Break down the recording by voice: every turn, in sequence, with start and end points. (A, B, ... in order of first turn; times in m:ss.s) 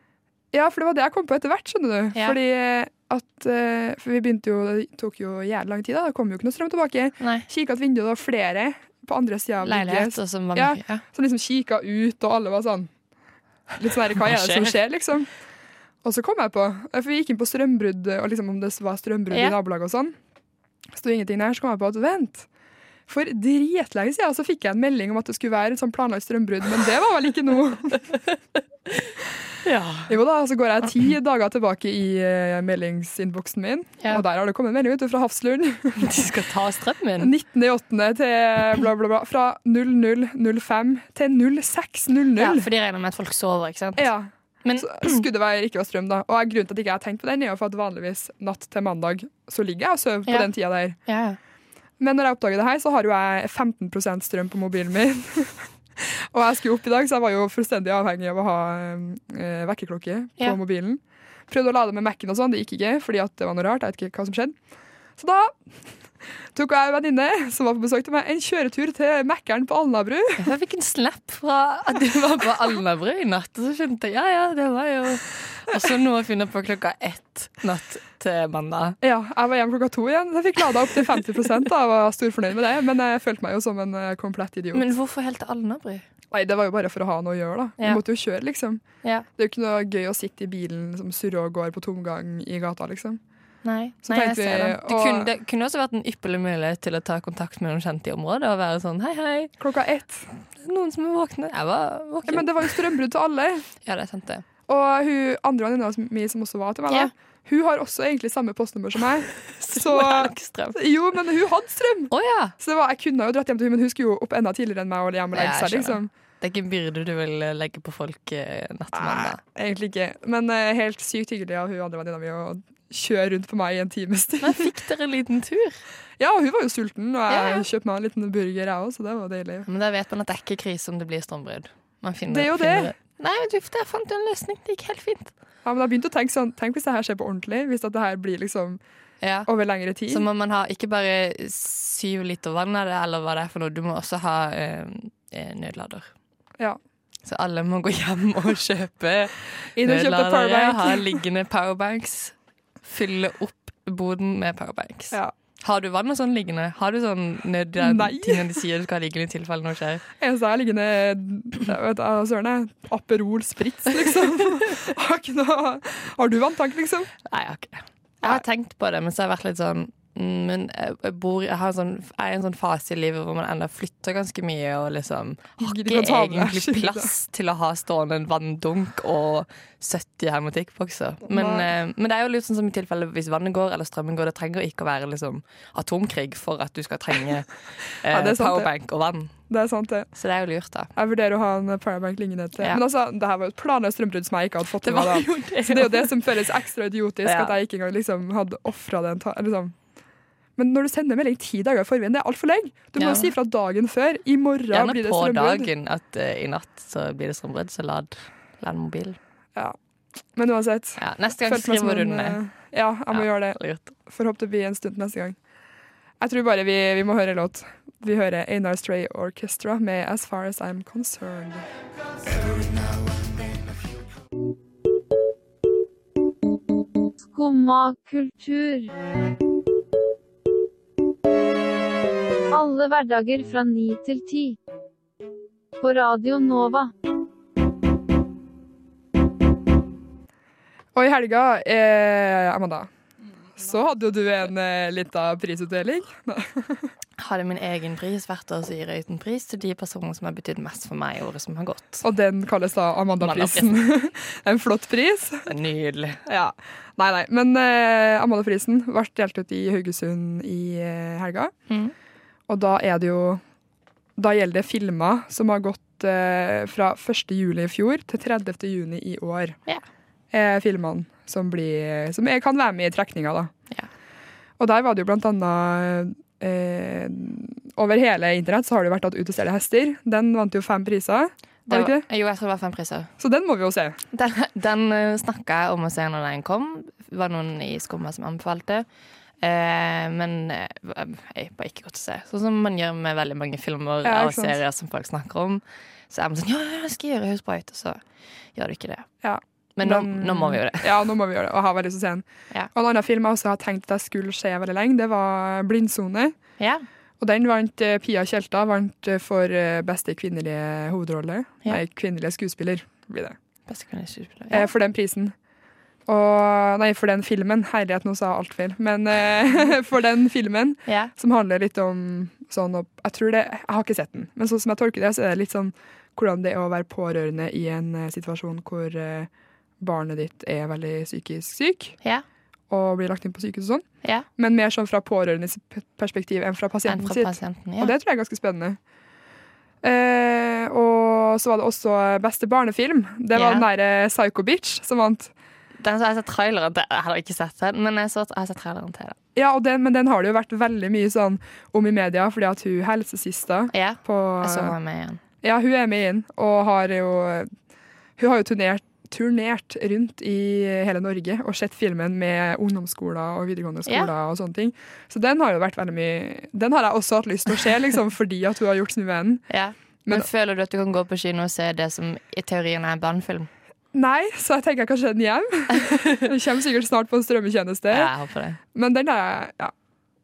0:00.5-0:12.9 A
0:07.2-0:07.4 B
0:09.6-0:11.0 B
0:13.8-0:15.3 A
0:14.2-0:14.8 B
0:16.0-0:20.1 A
0:20.9-0:22.5 A
0:23.1-0:28.0 A
0:29.6-0:30.1 B
0:30.1-0:36.2 A
0:36.0-0:37.3 B
0:37.2-0:42.6 A
0:42.4-0:44.1 B
0:44.0-0:51.0 A
0:44.6-0:45.2 B
0:51.0-0:51.4 B
0:52.0-1:04.6 A
1:05.2-1:05.5 A
1:06.5-1:10.4 A
1:10.4-1:19.0 B
1:19.0-1:24.8 A
1:24.7-1:26.0 B
1:26.3-1:28.8 A
1:29.3-1:33.2 A
1:33.6-1:39.5 B
1:34.0-1:35.3 A
1:39.6-1:40.3 A
1:40.6-1:42.8 B
1:42.3-1:43.6 A
1:43.8-1:44.4 B
1:44.7-1:56.1 A
1:49.5-1:50.8 B
1:52.1-1:52.5 B
1:55.3-1:59.4 B
1:58.9-2:04.7 A
2:04.4-2:05.8 B
2:06.2-2:09.7 A
2:07.3-2:07.6 B
2:09.6-2:15.3 B
2:12.3-2:12.9 A
2:15.6-2:18.8 A
2:19.2-2:19.5 B
2:19.4-2:20.2 A
2:20.1-2:26.1 B
2:27.2-2:40.0 B
2:29.8-2:31.2 A
2:37.8-2:38.6 A
2:40.2-2:47.1 A
2:47.3-3:09.3 B
2:55.6-2:57.1 A
3:01.2-3:01.7 A
3:08.1-3:08.7 A
3:09.5-3:10.1 A
3:10.2-3:10.9 B
3:11.0-3:19.7 A
3:14.8-3:16.3 B
3:17.2-3:17.5 B
3:20.6-3:25.7 A
3:23.0-3:23.3 B
3:24.7-3:29.2 B
3:30.3-3:35.4 A
3:31.0-3:32.4 B
3:33.1-3:33.9 B
3:36.2-3:41.6 A
3:47.2-3:48.9 C
3:52.5-3:54.6 C
3:55.8-3:56.9 C
4:00.9-4:02.9 A
4:03.6-4:06.9 A
4:07.2-4:12.0 B
4:12.0-4:15.5 A
4:13.2-4:13.8 B
4:15.4-4:16.2 B
4:16.2-4:21.5 A
4:21.7-4:21.9 B
4:22.5-4:23.4 A
4:24.2-4:29.6 A
4:30.3-4:33.5 A
4:34.6-4:42.0 A
4:41.7-4:43.1 B
4:43.2-4:44.0 A
4:44.1-4:48.8 B
4:49.4-4:58.0 B
4:54.0-4:54.6 A
4:58.5-4:59.1 B
4:59.2-5:06.3 A
4:59.8-5:01.0 B
5:06.6-5:06.8 B
5:07.2-5:13.4 A
5:13.7-5:14.7 B
5:14.5-5:15.3 A
5:16.1-5:32.0 A
5:20.8-5:21.1 B
5:32.7-5:33.8 A
5:34.4-5:38.8 A
5:36.8-5:37.9 B
5:39.8-5:45.3 A
5:43.3-5:43.6 B
5:45.8-5:49.2 B
5:49.4-5:54.7 A
5:53.7-5:55.2 B
5:55.4-5:57.5 A
5:58.2-6:09.4 A
6:03.8-6:04.1 B
6:09.5-6:13.5 B
6:13.9-6:18.1 A
6:15.7-6:16.3 B
6:17.9-6:18.6 B
6:18.7-6:19.7 A